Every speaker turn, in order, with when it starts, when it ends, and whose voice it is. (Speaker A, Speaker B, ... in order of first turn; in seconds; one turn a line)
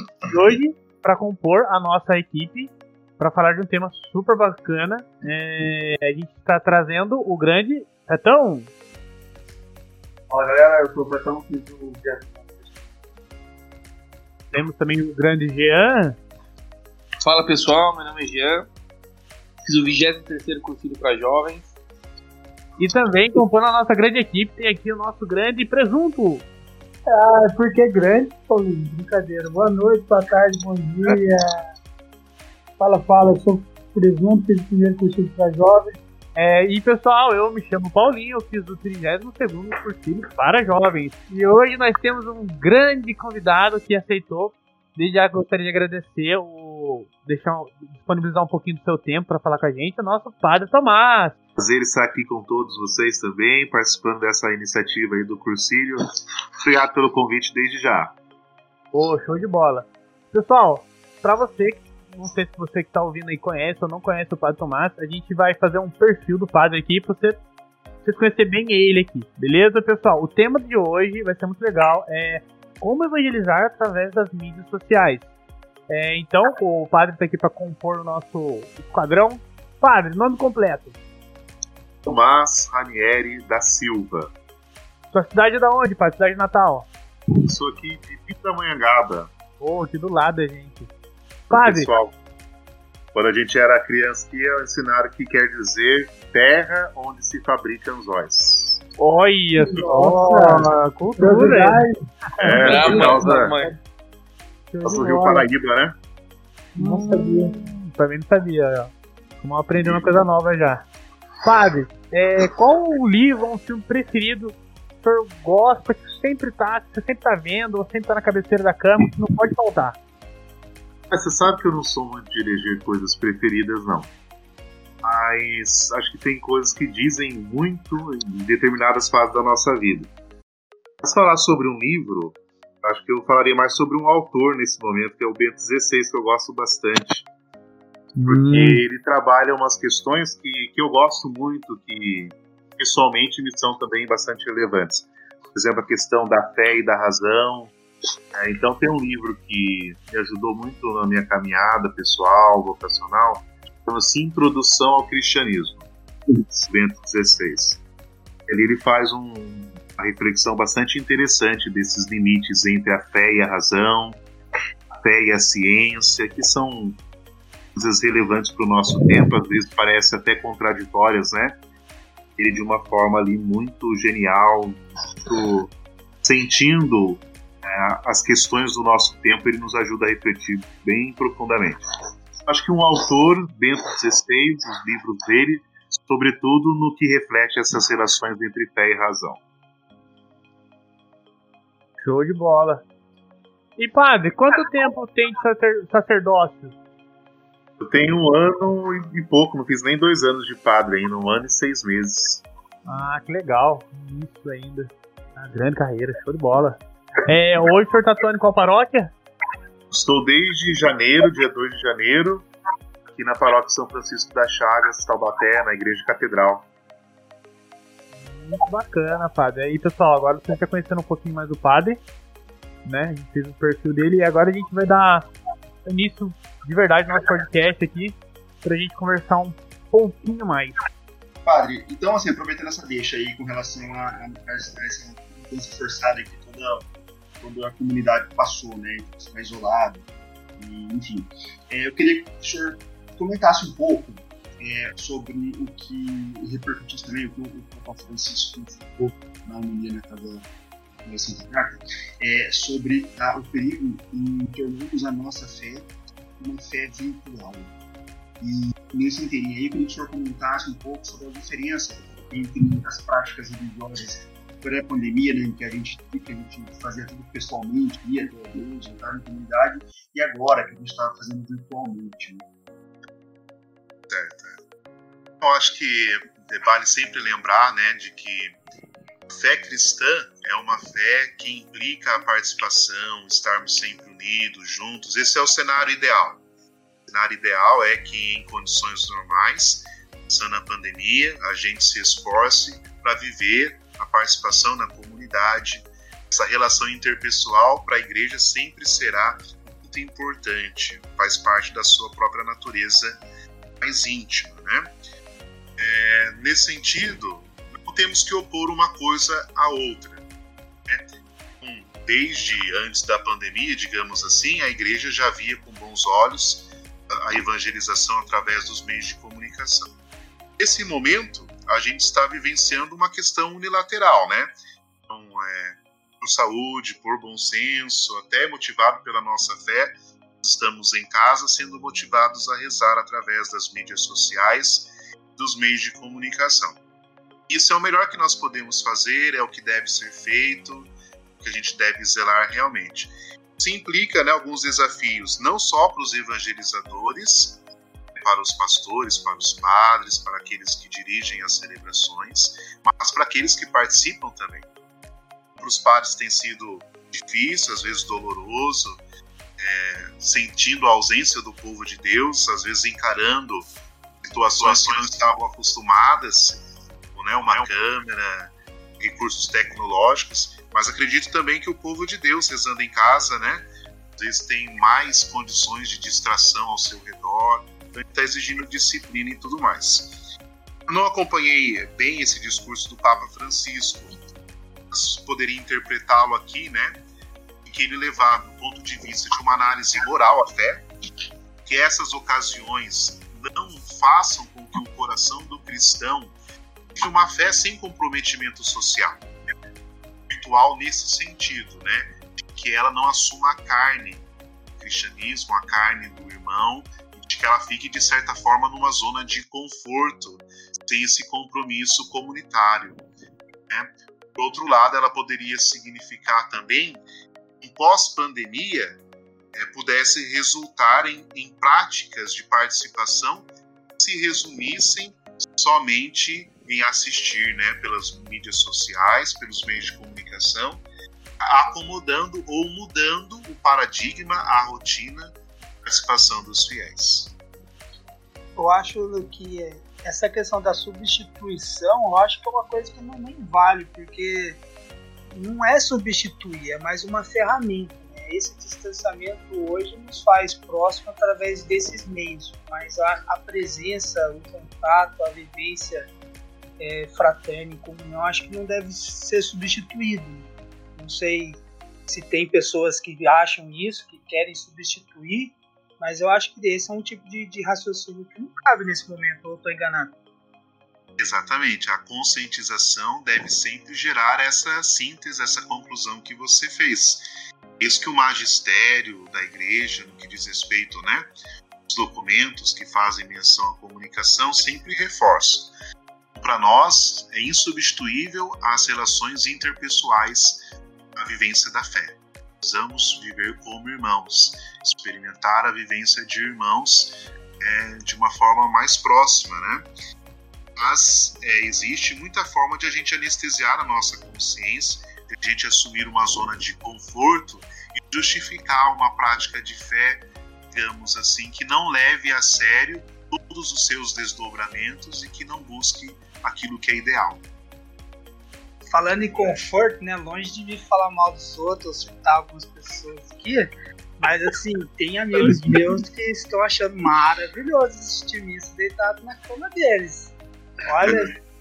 Speaker A: 0.3-8.7
Speaker B: 10.3-12.8
Speaker A: 14.5-16.2
Speaker C: 17.2-18.6
Speaker C: 19.6-21.7
Speaker A: 22.8-26.4
Speaker D: 27.1-31.5
Speaker D: 32.8-36.0
Speaker A: 36.4-51.4
Speaker E: 51.6-56.0
Speaker E: 56.6-58.1
Speaker A: 58.9-67.4
Speaker A: 68.0-75.3
Speaker A: 75.9-81.0
Speaker E: 82.0-84.3
Speaker A: 85.1-86.9
Speaker E: 87.5-89.3
Speaker A: 89.6-90.9
Speaker A: 91.5-91.9
Speaker E: 91.5-92.2
Speaker E: 93.1-98.8
Speaker A: 99.0-101.9
Speaker D: 99.6-101.9
Speaker E: 102.4-103.5
Speaker A: 102.4-103.2
Speaker C: 102.6-103.7
Speaker D: 102.7-103.2
Speaker A: 104.7-105.5
Speaker E: 104.8-106.0
Speaker A: 106.8-110.9
Speaker D: 106.8-107.5
Speaker A: 111.4-120.0
Speaker E: 121.1-124.1
Speaker E: 125.0-130.1
Speaker E: 131.0-137.2
Speaker A: 138.2-138.8
Speaker E: 138.2-147.8
Speaker E: 148.3-155.9
Speaker E: 156.5-157.8
Speaker E: 158.5-164.2
Speaker E: 165.0-167.0
Speaker E: 167.8-171.6
Speaker E: 172.4-175.7
Speaker E: 176.2-181.8
Speaker E: 182.5-189.4
Speaker A: 192.0-192.8
Speaker A: 193.8-196.8
Speaker E: 197.8-202.4
Speaker A: 202.9-209.1
Speaker E: 209.9-212.5
Speaker E: 213.1-216.7
Speaker A: 218.2-222.0
Speaker A: 222.8-225.3
Speaker A: 225.8-230.8
Speaker B: 231.4-236.9
Speaker B: 237.4-240.0
Speaker B: 240.6-250.5
Speaker B: 251.1-257.7
Speaker B: 258.4-272.4
Speaker E: 274.1-274.6
Speaker E: 275.4-278.6
Speaker E: 279.3-286.4
Speaker E: 287.1-303.2
Speaker E: 303.8-304.9
Speaker E: 305.8-310.2
Speaker E: 311.6-319.9
Speaker E: 320.6-324.5
Speaker E: 325.1-336.8
Speaker E: 337.5-347.6
Speaker E: 348.1-354.7
Speaker E: 355.6-359.0
Speaker E: 359.6-363.7
Speaker E: 364.2-373.6
Speaker E: 374.2-380.3
Speaker E: 380.9-384.2
Speaker E: 384.9-387.0
Speaker E: 387.6-390.9
Speaker E: 391.6-396.4
Speaker E: 396.9-399.2
Speaker E: 400.3-404.3
Speaker E: 404.8-413.0
Speaker E: 413.7-417.0
Speaker E: 417.6-419.0
Speaker E: 419.6-430.8
Speaker E: 431.4-437.4
Speaker D: 438.6-444.6
Speaker D: 445.3-456.1
Speaker D: 456.8-470.1
Speaker E: 471.2-477.3
Speaker E: 477.8-481.3
Speaker E: 481.9-485.7
Speaker E: 486.4-490.6
Speaker E: 491.1-499.9
Speaker E: 500.8-517.4
Speaker D: 518.9-531.4
Speaker E: 531.0-531.3